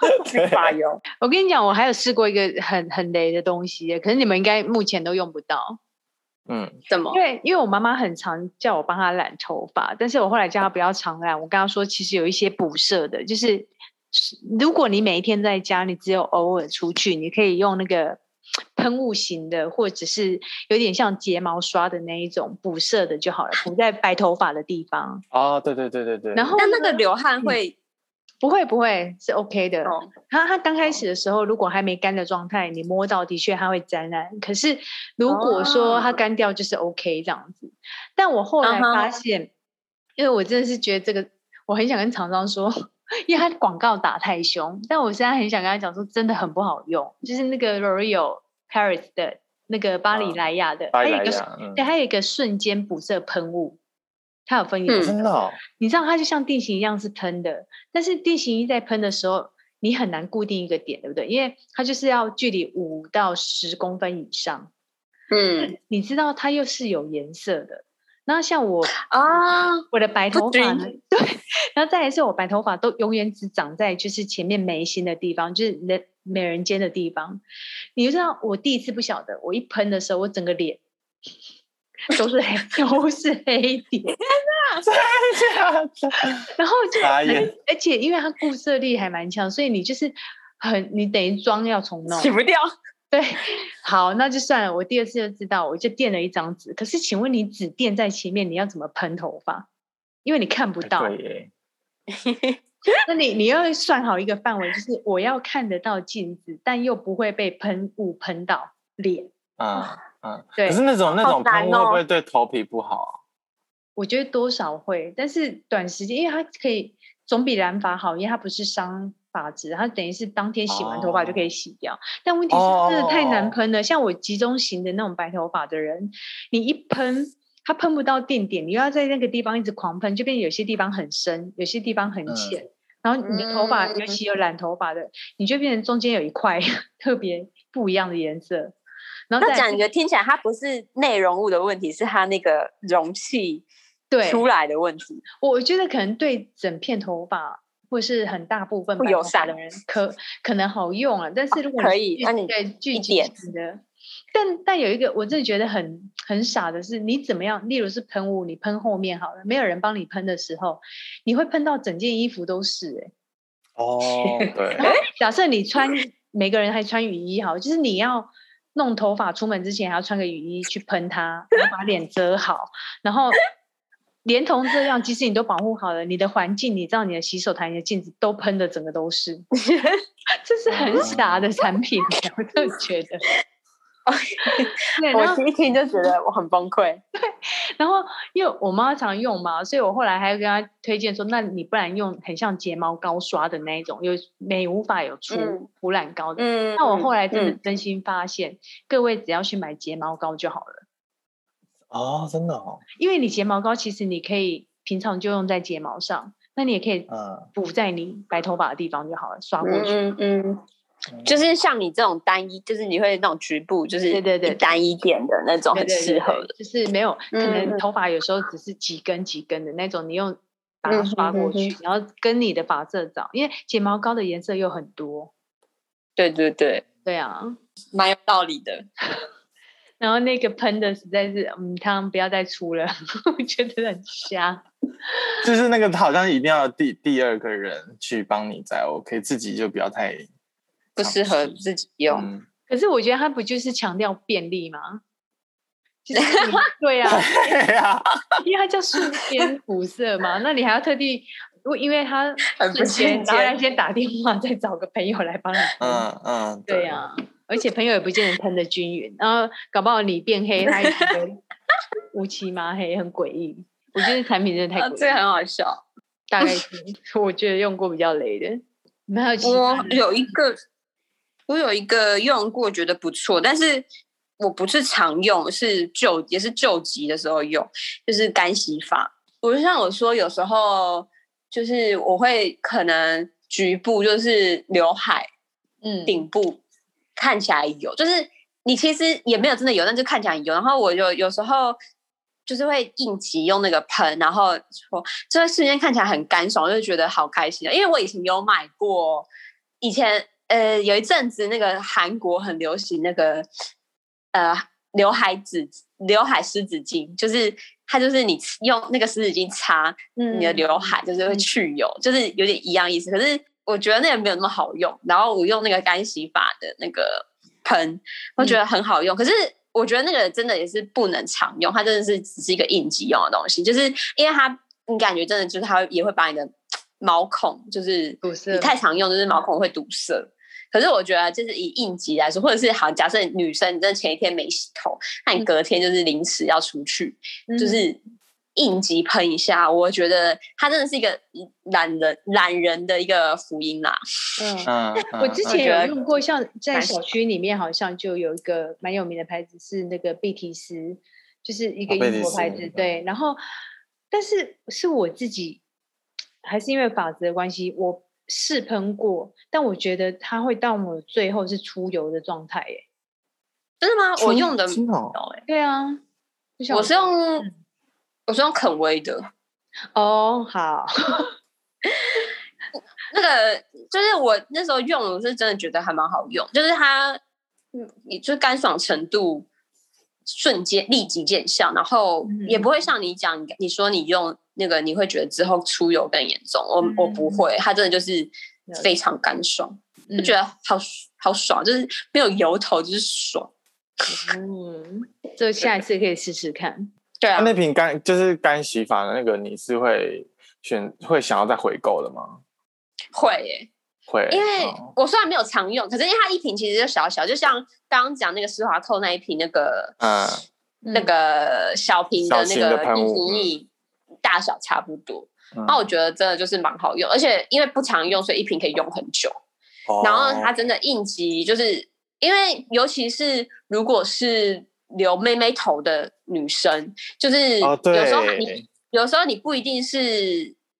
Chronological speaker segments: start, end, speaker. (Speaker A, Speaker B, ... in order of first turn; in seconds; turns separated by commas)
Speaker A: 0.2-1.0, Speaker B: 0.3-0.7, Speaker C: 1.2-5.8, Speaker B: 6.5-6.8, Speaker A: 6.9-7.2, Speaker C: 7.1-18.2, Speaker C: 18.7-25.2, Speaker B: 25.3-26.5, Speaker C: 26.3-27.6, Speaker A: 26.6-27.7, Speaker C: 28.4-39.5, Speaker A: 29.8-30.1, Speaker A: 35.3-36.2, Speaker A: 38.6-39.1, Speaker C: 40.2-42.7, Speaker C: 43.2-53.8, Speaker B: 50.1-51.9, Speaker C: 54.5-64.7, Speaker A: 54.9-55.1, Speaker B: 55.0-55.6, Speaker A: 65.3-65.7, Speaker C: 65.6-77.4, Speaker A: 69.1-70.8, Speaker C: 78.0-80.8, Speaker C: 82.1-84.2, Speaker A: 84.3-84.8, Speaker B: 84.8-86.5, Speaker C: 86.6-92.3, Speaker B: 87.0-87.5, Speaker A: 92.1-92.7, Speaker C: 93.1-99.7, Speaker C: 100.2-101.1, Speaker B: 100.8-101.5, Speaker A: 102.1-103.0, Speaker C: 103.0-109.3, Speaker B: 109.6-113.2, Speaker C: 110.6-110.8, Speaker A: 111.2-112.0, Speaker C: 114.0-138.7, Speaker B: 120.7-121.5, Speaker B: 122.5-123.5, Speaker B: 132.3-132.6, Speaker A: 133.2-134.2, Speaker C: 139.3-139.8, Speaker A: 139.4-143.6, Speaker C: 144.1-144.4, Speaker A: 144.2-145.2, Speaker C: 145.4-153.8, Speaker A: 149.0-149.6, Speaker A: 151.5-153.3, Speaker C: 154.3-163.1, Speaker B: 163.8-164.8, Speaker A: 164.2-165.0, Speaker C: 164.8-173.4, Speaker C: 174.2-179.4, Speaker A: 179.6-180.0, Speaker C: 180.4-183.2, Speaker B: 180.7-181.4, Speaker A: 184.1-187.0, Speaker C: 184.5-185.4, Speaker C: 187.2-200.8, Speaker A: 195.3-195.7, Speaker A: 196.4-197.6, Speaker B: 201.9-202.8, Speaker C: 203.0-209.9, Speaker B: 207.1-207.5, Speaker A: 209.6-210.6, Speaker B: 211.1-211.5, Speaker A: 211.2-216.5, Speaker C: 214.1-214.8, Speaker C: 215.7-225.3, Speaker A: 217.3-217.8, Speaker A: 220.9-221.7, Speaker A: 226.2-226.8, Speaker C: 227.0-227.6, Speaker A: 227.9-228.8, Speaker C: 230.0-234.6, Speaker B: 235.4-240.3, Speaker A: 241.0-242.3, Speaker B: 241.0-241.5, Speaker B: 242.1-242.4, Speaker C: 242.7-245.0, Speaker C: 246.0-247.3, Speaker A: 246.1-246.6, Speaker B: 247.1-248.4, Speaker C: 248.4-256.1, Speaker A: 252.5-253.5, Speaker B: 255.8-257.1, Speaker C: 256.7-261.4, Speaker A: 260.7-261.2, Speaker C: 262.1-265.2, Speaker A: 264.8-265.8, Speaker C: 266.3-270.0, Speaker A: 269.4-270.6, Speaker A: 271.5-273.9, Speaker A: 274.4-285.3, Speaker C: 285.8-286.2, Speaker A: 286.1-286.6, Speaker A: 287.1-291.8, Speaker A: 292.5-299.3, Speaker A: 299.8-303.4, Speaker A: 304.3-338.0, Speaker C: 310.1-311.5, Speaker C: 328.2-328.7, Speaker C: 337.5-337.8, Speaker A: 338.6-344.0, Speaker C: 344.4-353.4, Speaker B: 344.7-345.4, Speaker A: 345.4-346.0, Speaker A: 346.7-347.1, Speaker B: 351.9-352.9, Speaker C: 354.1-355.6, Speaker C: 356.4-362.8, Speaker A: 363.8-364.8, Speaker B: 364.2-365.2, Speaker C: 365.3-366.0, Speaker C: 366.6-367.5, Speaker A: 366.7-367.5, Speaker A: 368.3-369.3, Speaker C: 369.9-371.3, Speaker A: 371.9-372.3, Speaker A: 373.1-377.2, Speaker A: 377.7-379.5, Speaker A: 380.3-394.3, Speaker C: 382.2-382.7, Speaker C: 386.8-387.4, Speaker C: 390.1-390.4, Speaker C: 394.1-396.9, Speaker A: 397.2-397.5, Speaker B: 397.4-402.4, Speaker A: 403.1-403.7, Speaker B: 404.1-404.9, Speaker A: 404.3-409.9, Speaker B: 410.0-410.4, Speaker C: 410.8-411.1, Speaker A: 410.9-413.7, Speaker B: 412.1-413.5, Speaker A: 414.2-419.4, Speaker B: 415.5-415.9, Speaker B: 419.9-420.7, Speaker A: 420.0-430.5, Speaker B: 427.6-428.6